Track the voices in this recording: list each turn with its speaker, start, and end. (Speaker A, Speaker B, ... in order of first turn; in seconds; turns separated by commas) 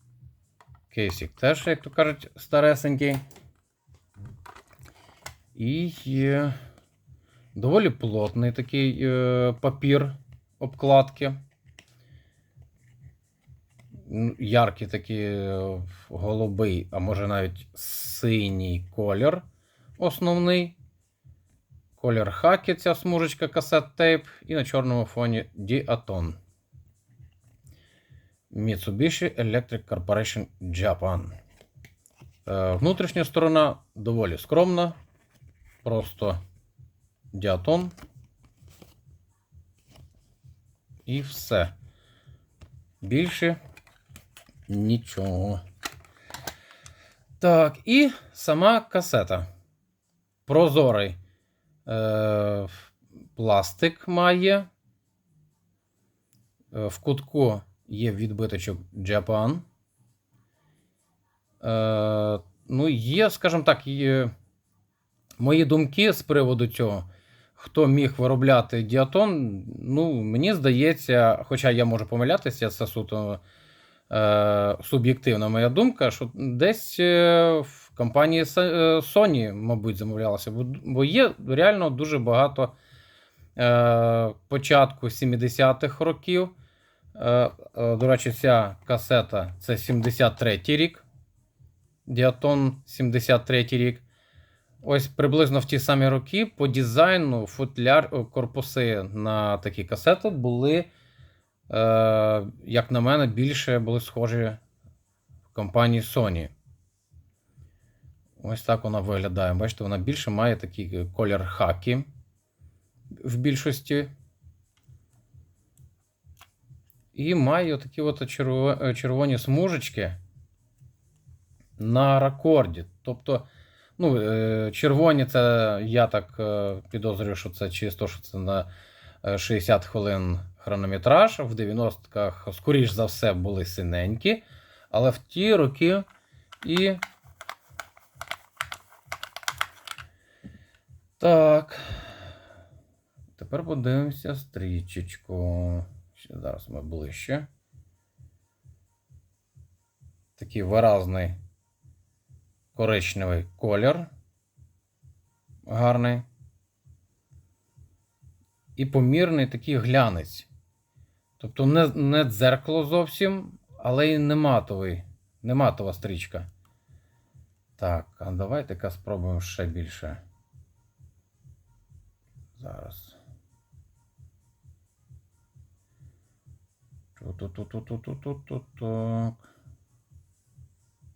Speaker A: 0.9-3.2, Speaker A: 5.5-6.5, Speaker A: 7.5-11.4, Speaker A: 14.1-19.4, Speaker A: 20.0-20.8, Speaker A: 22.0-26.4, Speaker A: 28.5-31.3, Speaker A: 32.5-34.9, Speaker A: 35.8-36.4, Speaker A: 37.3-37.9, Speaker A: 41.0-41.7, Speaker A: 43.0-43.6, Speaker A: 44.7-45.6, Speaker A: 47.4-49.5, Speaker A: 50.5-51.2, Speaker A: 51.9-54.7, Speaker A: 56.7-59.6, Speaker A: 61.6-64.3, Speaker A: 65.4-73.4, Speaker A: 74.1-82.8, Speaker A: 83.6-86.5, Speaker A: 87.1-91.0, Speaker A: 92.1-94.0, Speaker A: 94.8-100.9, Speaker A: 101.7-104.6, Speaker A: 105.5-106.5, Speaker A: 108.4-112.1, Speaker A: 113.2-114.1, Speaker A: 117.1-120.2, Speaker A: 121.8-123.5, Speaker A: 124.0-128.7, Speaker A: 129.2-136.1, Speaker A: 136.6-137.0, Speaker A: 141.2-142.1, Speaker A: 143.3-147.5, Speaker A: 150.4-151.4, Speaker A: 152.7-154.1, Speaker A: 155.7-156.2, Speaker A: 158.8-160.5, Speaker A: 161.4-166.5, Speaker A: 167.8-170.2, Speaker A: 172.6-173.2, Speaker A: 177.2-179.4